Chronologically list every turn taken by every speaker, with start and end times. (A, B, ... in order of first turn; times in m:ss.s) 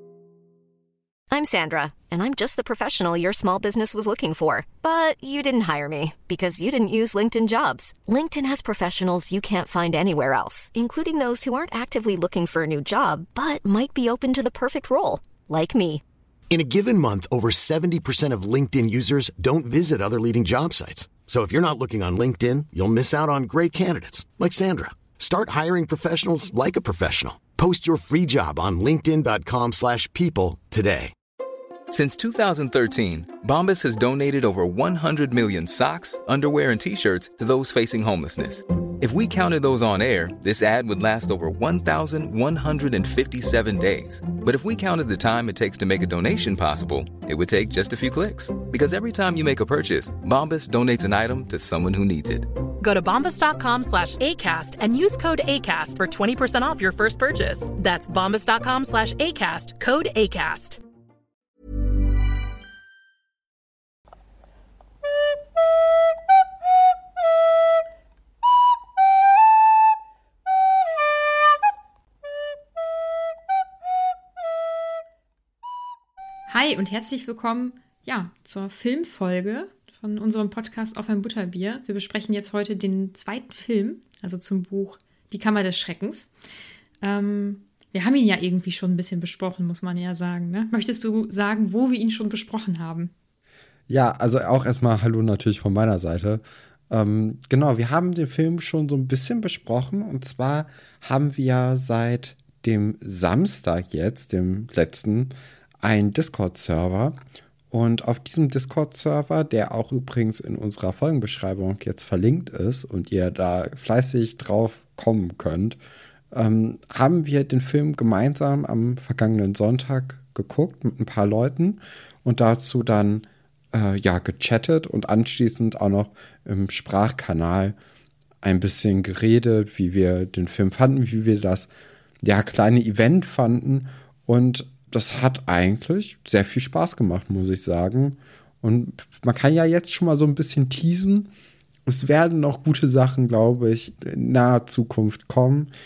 0:01.3-0:16.0 A
0:16.5-0:31.1 B
0:31.9-0:52.5 C
0:52.8-1:00.8 D
1:16.5-1:26.3 E
1:27.0-1:33.1 E
1:33.9-1:47.2 F
1:47.7-1:55.8 F
1:56.3-2:07.8 F
2:08.4-2:11.7 F
2:12.2-2:21.3 F
2:21.9-2:25.7 F